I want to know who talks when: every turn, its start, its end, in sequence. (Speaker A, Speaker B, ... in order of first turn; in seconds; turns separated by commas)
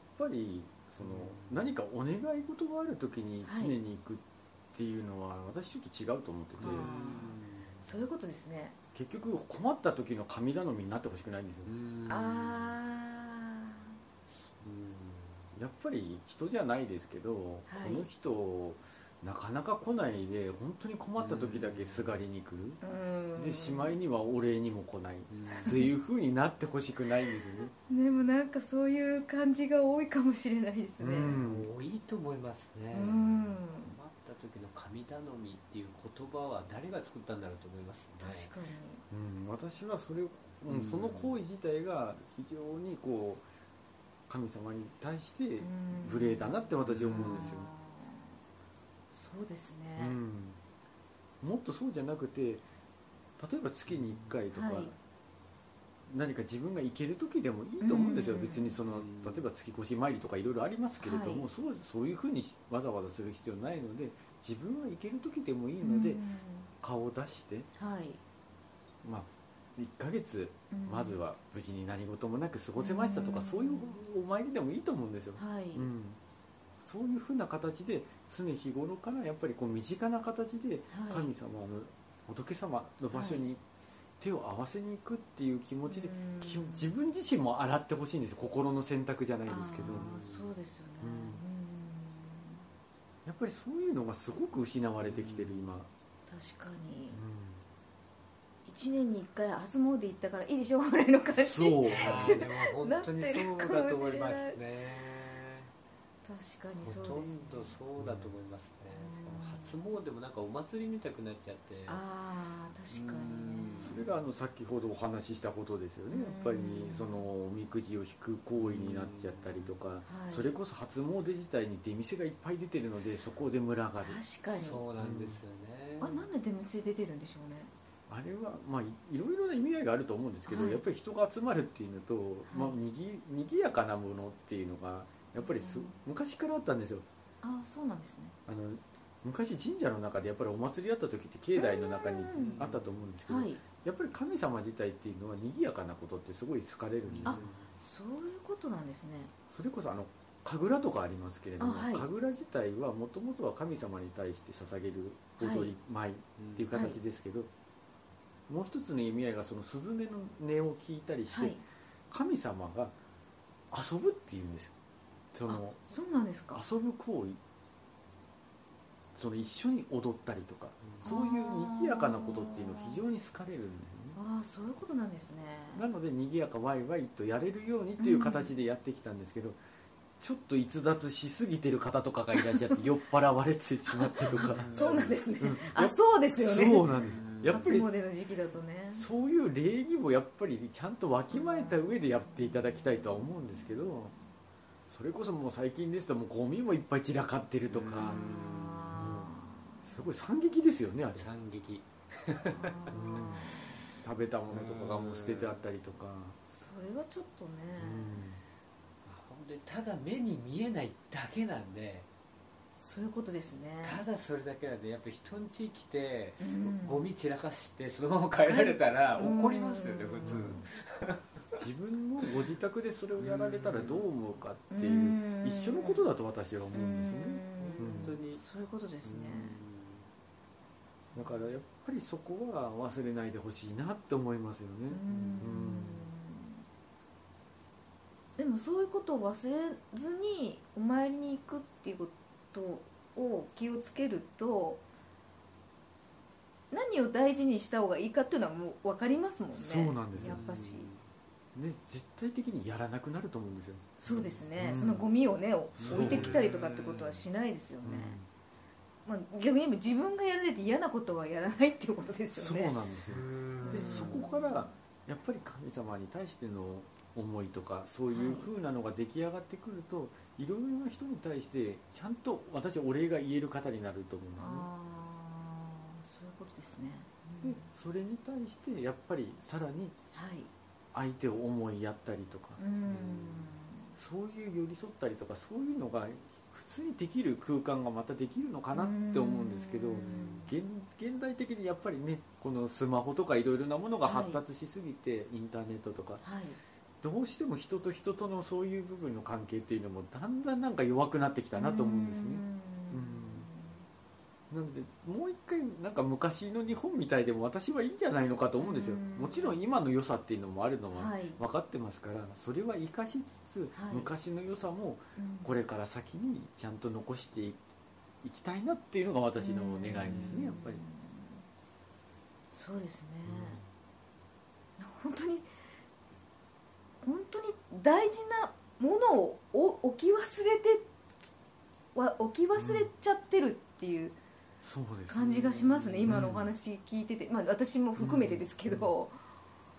Speaker A: 0.2-6.9, Speaker B: 1.0-1.7, Speaker C: 3.4-3.8, Speaker B: 6.6-7.9, Speaker C: 6.6-8.8, Speaker A: 8.9-11.7, Speaker B: 11.6-12.8, Speaker C: 12.1-13.9, Speaker B: 14.4-15.5, Speaker A: 15.5-22.8, Speaker C: 17.7-18.1, Speaker B: 21.2-22.2, Speaker C: 22.8-24.0, Speaker A: 23.4-27.7, Speaker B: 25.3-25.8, Speaker C: 27.4-31.3, Speaker A: 31.0-31.7, Speaker B: 31.2-38.5, Speaker C: 32.9-34.0, Speaker C: 38.2-39.0, Speaker A: 39.1-43.4, Speaker B: 40.7-41.4, Speaker A: 44.3-47.7, Speaker C: 45.6-48.4, Speaker B: 46.9-47.5, Speaker C: 49.1-50.2, Speaker A: 50.0-50.6, Speaker A: 51.4-52.6, Speaker A: 53.4-55.0, Speaker B: 53.9-54.4, Speaker C: 54.5-54.9, Speaker A: 56.1-66.2, Speaker C: 57.8-58.8, Speaker B: 58.9-59.5, Speaker C: 61.0-61.5, Speaker C: 65.8-66.7, Speaker A: 66.8-67.7, Speaker C: 67.8-68.2, Speaker A: 69.0-76.2, Speaker C: 70.7-71.2, Speaker C: 72.8-74.0, Speaker C: 75.3-75.9, Speaker A: 76.8-83.6, Speaker C: 80.9-81.3, Speaker C: 83.1-83.4, Speaker A: 84.2-90.1, Speaker C: 85.8-86.9, Speaker C: 89.4-92.6, Speaker B: 89.9-90.5, Speaker A: 91.0-91.4, Speaker A: 93.2-95.9, Speaker B: 95.0-95.7, Speaker C: 96.3-97.2, Speaker A: 97.1-97.6, Speaker C: 98.7-104.6, Speaker A: 101.3-102.4, Speaker B: 101.9-105.7, Speaker C: 106.2-107.8, Speaker B: 106.8-112.0, Speaker A: 108.0-108.3, Speaker C: 108.9-109.9, Speaker C: 111.8-114.0, Speaker B: 112.9-114.1, Speaker A: 113.8-124.2, Speaker C: 116.1-117.3, Speaker B: 118.5-119.8, Speaker C: 120.0-120.5, Speaker C: 124.0-124.8, Speaker B: 124.5-126.3, Speaker A: 125.0-125.4, Speaker C: 126.0-127.7, Speaker A: 128.1-137.1, Speaker C: 130.5-130.8, Speaker C: 132.5-132.8, Speaker C: 135.4-136.0, Speaker C: 137.4-138.3, Speaker A: 138.5-147.4, Speaker C: 141.5-142.6, Speaker B: 142.3-142.9, Speaker C: 143.3-143.6, Speaker B: 147.0-147.7, Speaker C: 147.2-149.3, Speaker A: 149.5-157.5, Speaker C: 151.6-152.1, Speaker C: 155.4-155.7, Speaker B: 156.4-156.7, Speaker C: 156.7-157.0, Speaker A: 158.5-161.6, Speaker C: 161.3-161.6, Speaker A: 162.1-162.9, Speaker A: 163.7-164.7, Speaker A: 165.3-165.8, Speaker C: 165.5-166.6, Speaker A: 166.5-167.4, Speaker A: 169.1-174.2, Speaker C: 171.0-173.0, Speaker C: 174.2-175.8, Speaker A: 175.7-179.6, Speaker C: 178.0-178.5, Speaker A: 180.2-188.0, Speaker C: 182.4-182.8, Speaker C: 183.9-186.9, Speaker B: 184.3-185.2, Speaker B: 186.8-187.7, Speaker C: 187.5-189.1, Speaker A: 188.9-194.1, Speaker C: 191.3-194.2, Speaker A: 194.9-198.3, Speaker B: 197.7-199.0, Speaker C: 198.0-199.8, Speaker A: 198.9-201.3, Speaker B: 201.1-203.4, Speaker C: 202.4-203.9, Speaker A: 202.9-206.4, Speaker B: 204.5-205.7, Speaker C: 206.5-208.2, Speaker A: 207.8-208.4, Speaker B: 209.0-212.1, Speaker C: 212.8-214.0, Speaker B: 213.8-221.2, Speaker C: 216.4-217.1, Speaker C: 218.4-220.7, Speaker A: 220.2-220.6, Speaker A: 221.6-228.2, Speaker B: 223.2-224.1, Speaker C: 224.7-226.1, Speaker C: 226.7-229.6, Speaker B: 227.6-228.4, Speaker B: 229.0-230.1, Speaker A: 231.1-236.1, Speaker C: 234.9-236.6, Speaker B: 235.1-235.6, Speaker C: 238.4-244.8, Speaker C: 246.7-250.9, Speaker A: 249.5-250.4, Speaker B: 250.2-251.0, Speaker A: 251.5-253.9, Speaker C: 254.0-258.2, Speaker B: 254.1-254.4, Speaker A: 254.5-255.1, Speaker A: 255.8-256.4, Speaker B: 255.8-257.2, Speaker A: 257.8-258.3, Speaker C: 259.0-262.8, Speaker A: 262.3-274.7, Speaker B: 263.1-264.2, Speaker C: 263.6-264.7, Speaker C: 268.1-268.5, Speaker C: 274.4-277.7, Speaker A: 277.4-279.9, Speaker C: 280.1-280.5, Speaker A: 280.9-282.6, Speaker C: 282.6-283.9, Speaker B: 282.8-283.5, Speaker A: 284.0-296.2, Speaker C: 288.7-290.5, Speaker C: 294.0-294.4, Speaker C: 296.2-296.6, Speaker A: 297.0-303.5, Speaker C: 301.5-303.8, Speaker A: 304.5-317.6, Speaker C: 308.6-309.6, Speaker C: 310.9-311.4, Speaker C: 313.7-314.1, Speaker C: 315.1-315.5, Speaker A: 318.2-320.8, Speaker C: 319.4-321.4, Speaker C: 322.5-323.6, Speaker A: 323.2-323.6, Speaker C: 324.8-325.5, Speaker C: 327.0-330.9, Speaker C: 331.9-334.1, Speaker A: 332.6-332.9, Speaker A: 334.6-336.5, Speaker C: 335.1-339.2, Speaker B: 335.5-336.2, Speaker A: 338.0-338.9